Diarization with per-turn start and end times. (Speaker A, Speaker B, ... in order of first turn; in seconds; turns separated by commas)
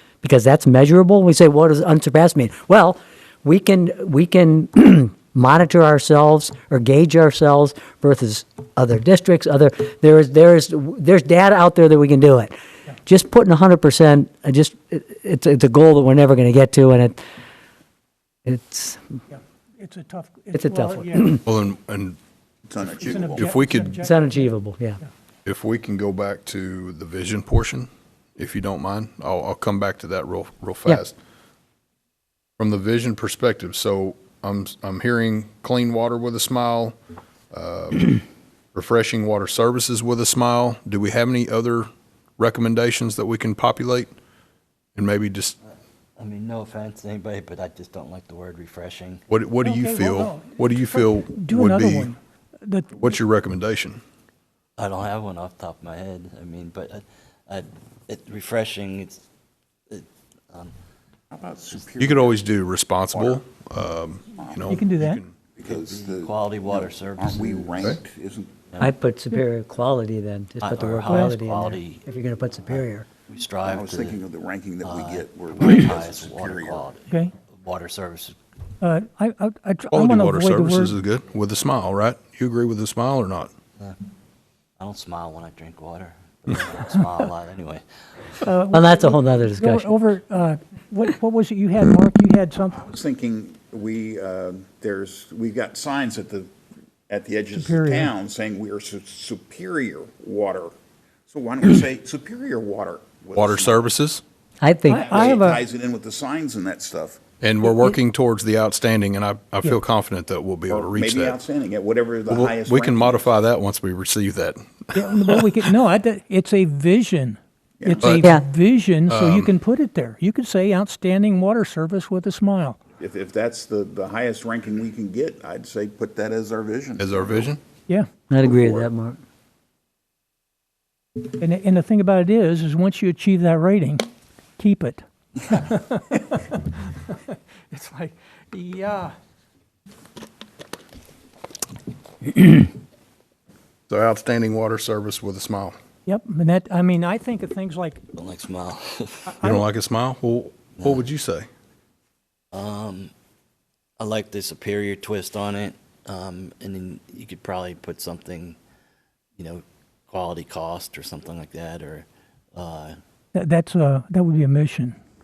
Speaker A: 0.2-12.5, Speaker A: 13.1-17.2, Speaker A: 18.4-19.0, Speaker B: 19.3-21.4, Speaker A: 20.5-21.4, Speaker C: 21.4-22.2, Speaker D: 22.7-23.5, Speaker B: 22.9-24.5, Speaker C: 23.4-24.0, Speaker A: 24.0-25.0, Speaker C: 25.4-31.1, Speaker C: 32.6-36.9, Speaker C: 37.5-38.2, Speaker C: 38.7-44.1, Speaker C: 44.9-45.6, Speaker E: 46.2-49.2, Speaker C: 49.3-52.1, Speaker B: 49.6-53.0, Speaker C: 53.0-54.0, Speaker E: 54.8-59.2, Speaker E: 59.9-60.7, Speaker D: 61.3-62.5, Speaker C: 62.0-65.4, Speaker D: 63.1-63.4, Speaker D: 64.3-64.7, Speaker B: 64.7-65.2, Speaker D: 65.5-68.5, Speaker E: 65.6-67.8, Speaker A: 68.8-73.1, Speaker E: 70.6-72.0, Speaker B: 71.1-71.3, Speaker E: 72.7-74.2, Speaker D: 73.6-76.9, Speaker E: 74.8-77.0, Speaker E: 77.6-78.3, Speaker B: 78.8-80.9, Speaker C: 79.9-83.5, Speaker E: 84.8-87.8, Speaker B: 88.4-92.8, Speaker A: 88.7-89.9, Speaker D: 92.8-96.5, Speaker D: 97.1-100.7, Speaker B: 97.5-98.1, Speaker D: 101.3-103.9, Speaker C: 103.3-104.2, Speaker A: 104.6-105.3, Speaker B: 104.8-105.6, Speaker D: 104.9-107.2, Speaker C: 107.4-111.4, Speaker D: 110.7-113.3, Speaker C: 112.3-115.4, Speaker B: 114.9-122.8, Speaker D: 117.8-118.2, Speaker C: 118.0-118.3, Speaker C: 119.1-119.5, Speaker D: 123.0-127.5, Speaker C: 127.0-127.6, Speaker A: 128.3-129.2, Speaker B: 131.4-134.1, Speaker B: 134.6-139.1, Speaker C: 143.9-145.8, Speaker B: 146.1-148.0, Speaker E: 148.1-149.3, Speaker B: 149.3-149.6, Speaker C: 149.4-151.5, Speaker E: 152.5-153.1, Speaker E: 154.0-158.6, Speaker E: 159.4-163.0, Speaker B: 163.3-164.9